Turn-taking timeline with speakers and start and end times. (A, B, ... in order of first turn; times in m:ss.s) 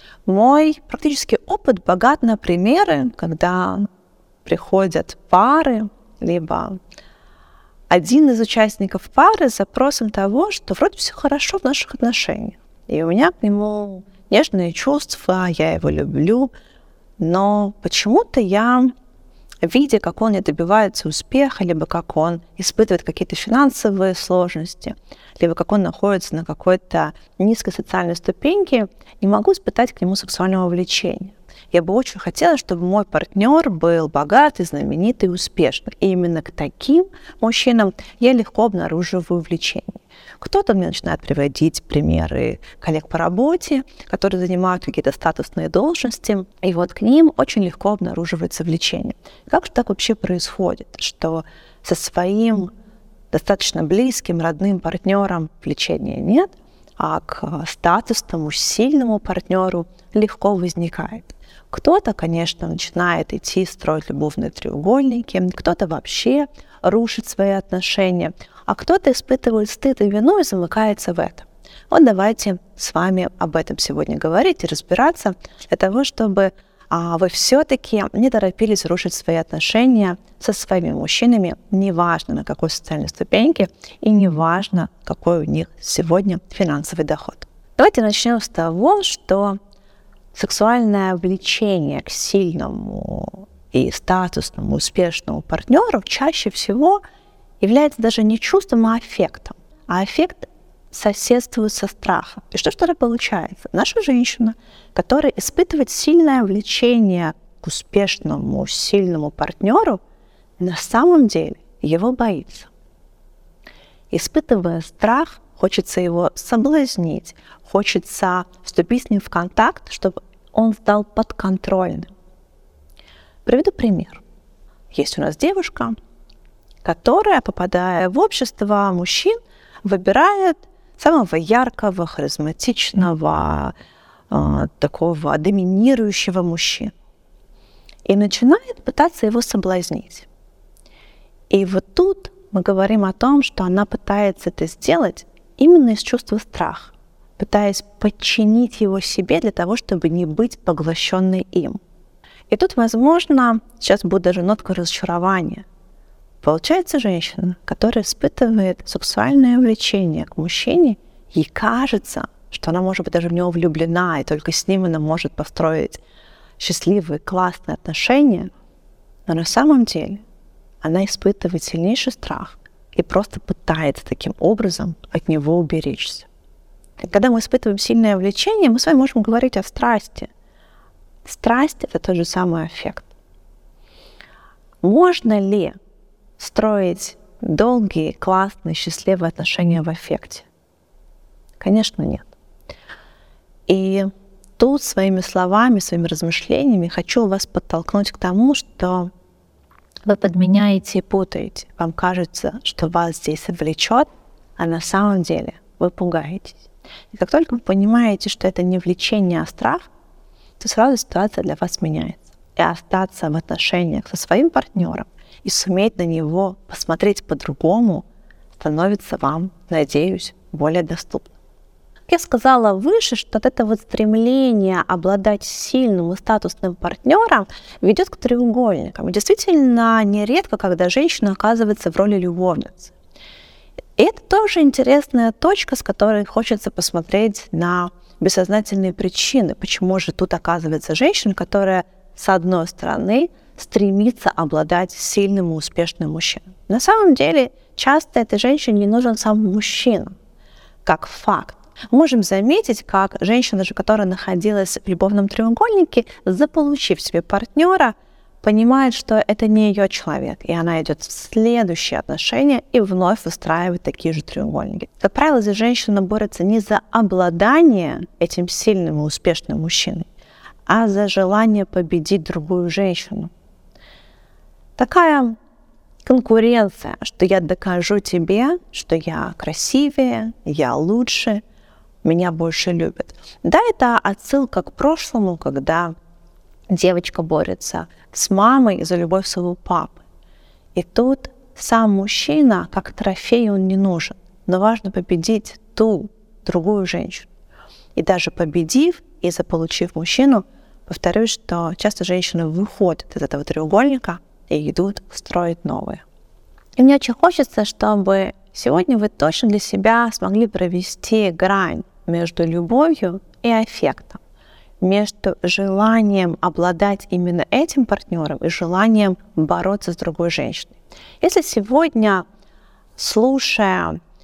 0:00.3-0:03.9 A
0:04.4-0:06.8 A
0:07.9-0:16.5 A
0:17.2-0:18.9 A
0:19.6-0:52.7 A
0:53.3-1:29.6 A
1:30.3-1:37.0 A
1:37.6-1:50.0 A
1:50.6-1:52.7 A
1:54.1-2:02.1 A
2:03.4-2:04.2 A
2:04.9-2:06.0 A
2:06.8-2:13.7 A
2:14.3-2:16.9 A
2:18.1-2:20.3 A
2:21.5-2:31.8 A
2:32.5-2:35.6 A
2:36.4-2:46.0 A
2:46.6-2:48.5 A
2:49.3-2:50.2 A
2:50.8-2:56.3 A
2:57.0-3:00.3 A
3:01.2-3:03.1 A
3:04.8-3:05.8 A
3:06.4-3:10.5 A
3:11.6-3:12.3 A
3:13.7-3:19.1 A
3:20.1-3:29.9 A
3:30.6-3:38.1 A
3:38.6-3:41.4 A
3:42.1-3:52.9 A
3:54.0-4:10.2 A
4:10.8-4:30.1 A
4:30.7-4:33.3 A
4:34.8-4:35.4 A
4:36.0-4:41.4 A
4:42.0-4:46.0 A
4:46.7-4:50.0 A
4:50.8-4:57.3 A
4:58.0-5:06.0 A
5:06.8-5:14.2 A
5:14.8-5:22.2 A
5:23.0-5:24.0 A